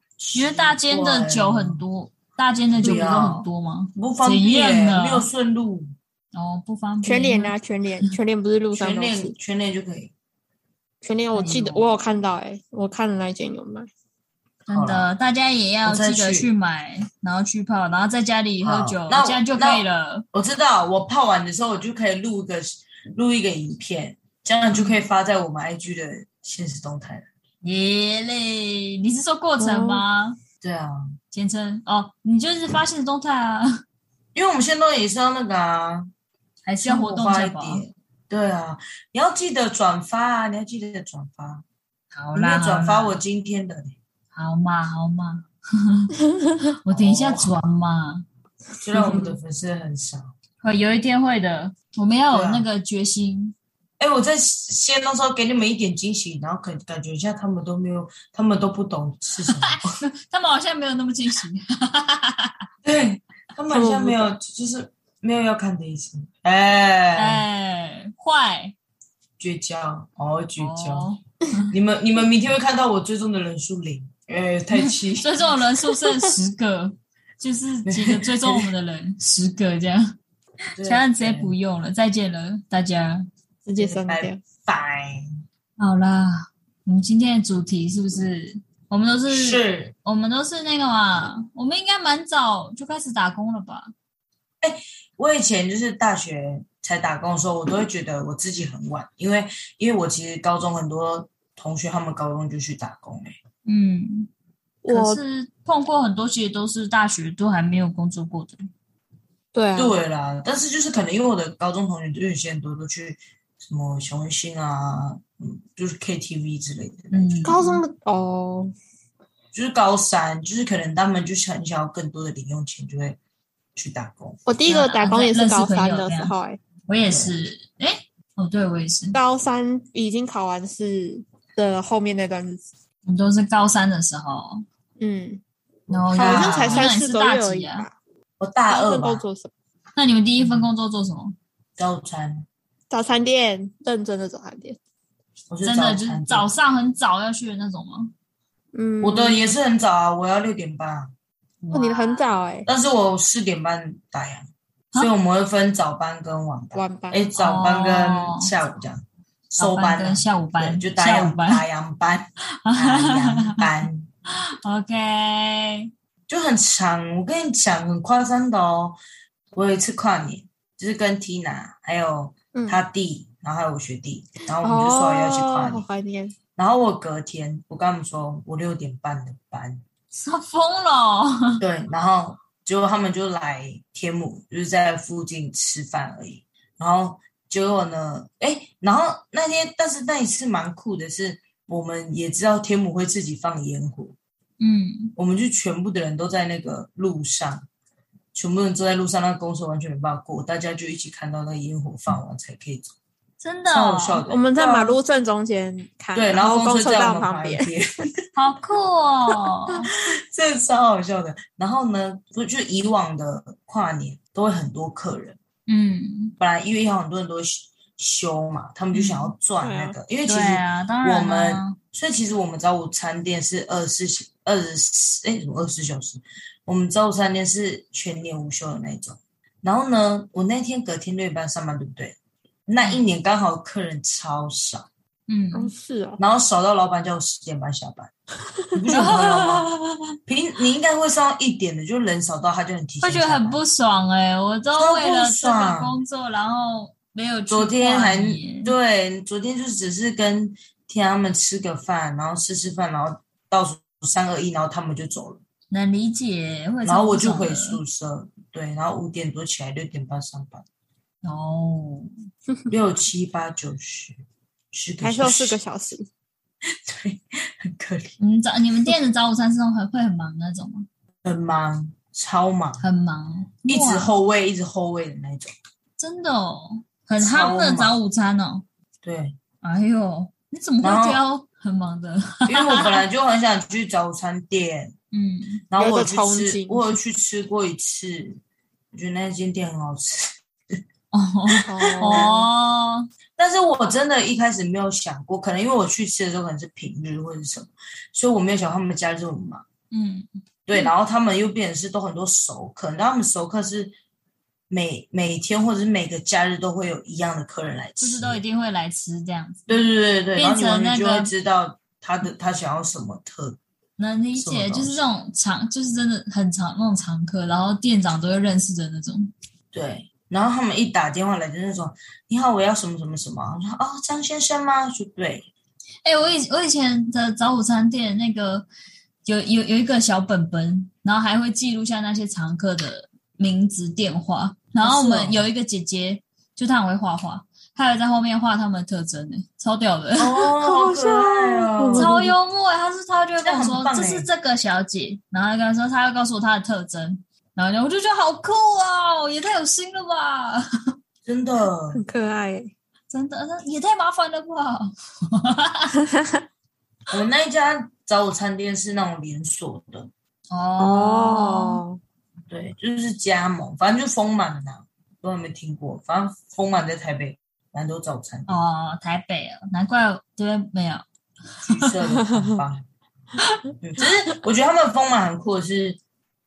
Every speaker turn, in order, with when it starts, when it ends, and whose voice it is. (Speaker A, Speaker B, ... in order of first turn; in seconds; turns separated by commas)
Speaker A: 0.2-1.8, Speaker B: 0.3-5.3, Speaker A: 2.8-5.9, Speaker B: 6.3-7.5, Speaker C: 7.0-9.3, Speaker A: 8.7-10.1, Speaker C: 11.0-13.9, Speaker B: 11.3-11.9, Speaker B: 14.7-20.3, Speaker A: 14.7-15.1, Speaker A: 15.8-16.5, Speaker A: 18.6-27.3, Speaker B: 24.7-25.1, Speaker B: 27.6-30.4, Speaker C: 29.6-30.0, Speaker A: 30.6-31.2, Speaker B: 31.3-33.8, Speaker A: 34.4-36.1, Speaker B: 36.7-37.8, Speaker A: 36.8-41.6, Speaker B: 42.1-43.2, Speaker A: 42.4-44.0, Speaker B: 44.3-46.1, Speaker B: 46.9-48.3, Speaker A: 46.9-47.5, Speaker A: 48.8-50.3, Speaker C: 49.0-49.3, Speaker B: 50.6-53.5, Speaker A: 52.3-52.7, Speaker A: 54.0-59.9, Speaker B: 59.6-62.6, Speaker A: 62.9-67.4, Speaker C: 63.7-64.3, Speaker B: 67.2-68.8, Speaker A: 69.4-71.1, Speaker B: 70.6-71.7, Speaker A: 71.7-75.4, Speaker B: 74.8-80.2, Speaker C: 75.9-76.3, Speaker A: 77.9-78.7, Speaker A: 80.8-81.5, Speaker B: 80.8-83.3, Speaker C: 83.7-84.4, Speaker A: 83.8-85.3, Speaker B: 85.8-93.9, Speaker A: 89.3-89.9, Speaker A: 94.6-103.3, Speaker B: 103.7-104.3, Speaker C: 104.8-105.2, Speaker B: 104.9-108.6, Speaker C: 109.5-110.0, Speaker A: 109.8-117.4, Speaker B: 117.1-117.8, Speaker C: 117.4-118.7, Speaker A: 119.5-123.2, Speaker A: 123.8-124.4, Speaker C: 124.5-126.6, Speaker B: 124.7-126.3, Speaker B: 126.9-129.2, Speaker A: 127.1-127.3, Speaker C: 129.1-132.7, Speaker B: 133.1-134.7, Speaker C: 135.0-135.4, Speaker A: 135.9-136.9, Speaker B: 135.9-137.9, Speaker C: 136.1-137.9, Speaker A: 138.4-139.2, Speaker C: 138.7-139.5, Speaker B: 140.0-141.4, Speaker A: 140.4-140.7, Speaker A: 141.8-142.5, Speaker C: 142.9-144.8, Speaker A: 145.5-146.5, Speaker B: 145.6-148.1, Speaker C: 148.7-149.5, Speaker A: 149.0-151.1, Speaker B: 151.6-152.2, Speaker C: 151.7-152.7, Speaker A: 152.7-164.1, Speaker C: 156.7-157.3, Speaker B: 157.4-158.5, Speaker B: 159.6-161.6, Speaker B: 162.7-163.7, Speaker B: 164.3-165.9, Speaker A: 166.3-169.0, Speaker A: 169.5-175.8, Speaker C: 172.5-172.8, Speaker C: 174.6-176.3, Speaker A: 176.6-179.8, Speaker B: 180.1-181.6, Speaker A: 181.6-194.2, Speaker B: 194.6-195.2, Speaker A: 195.2-197.7, Speaker A: 198.3-202.9, Speaker B: 203.4-204.2, Speaker A: 203.7-205.0, Speaker C: 204.3-207.7, Speaker A: 206.1-208.1, Speaker B: 208.4-209.9, Speaker A: 210.0-215.4, Speaker B: 215.7-216.4, Speaker A: 216.4-234.9, Speaker B: 218.9-219.3, Speaker C: 219.6-220.0, Speaker B: 220.3-221.8, Speaker B: 235.3-235.7, Speaker C: 235.5-236.2, Speaker A: 236.2-238.1, Speaker A: 238.7-239.7, Speaker B: 238.9-240.0, Speaker A: 240.3-243.6, Speaker B: 243.0-248.8, Speaker A: 244.8-245.9, Speaker A: 247.5-255.4, Speaker B: 255.7-257.8, Speaker A: 256.8-260.6, Speaker B: 261.2-262.1, Speaker A: 262.7-265.6, Speaker C: 265.0-266.1, Speaker A: 266.7-268.1, Speaker B: 268.2-270.9, Speaker A: 271.2-272.8, Speaker B: 272.8-274.1, Speaker A: 273.7-275.5, Speaker B: 276.0-278.6, Speaker A: 277.2-278.0, Speaker A: 279.0-279.4, Speaker B: 279.6-283.0, Speaker A: 280.8-281.2, Speaker A: 282.5-284.9, Speaker B: 285.1-285.6, Speaker A: 285.7-288.4, Speaker C: 285.8-287.0, Speaker A: 288.9-290.4, Speaker B: 291.1-293.1, Speaker C: 291.6-292.5, Speaker A: 291.9-292.3, Speaker A: 293.4-299.7, Speaker B: 299.9-300.9, Speaker A: 300.7-303.9, Speaker A: 304.7-308.4, Speaker B: 308.0-311.3, Speaker A: 309.7-313.6, Speaker B: 314.0-319.3, Speaker A: 314.4-315.0, Speaker A: 319.7-325.5, Speaker B: 326.1-328.7, Speaker B: 329.2-340.5, Speaker A: 334.8-335.4, Speaker A: 340.2-342.1, Speaker C: 340.6-342.3, Speaker B: 341.9-350.6, Speaker A: 343.4-344.3, Speaker A: 351.3-352.0, Speaker C: 351.9-352.7, Speaker B: 353.1-356.0, Speaker C: 356.0-356.4, Speaker A: 357.1-360.1, Speaker B: 360.5-361.8, Speaker C: 360.8-362.0, Speaker A: 362.5-368.6, Speaker B: 368.5-371.0, Speaker A: 371.6-372.9, Speaker C: 372.3-372.6, Speaker A: 373.8-376.0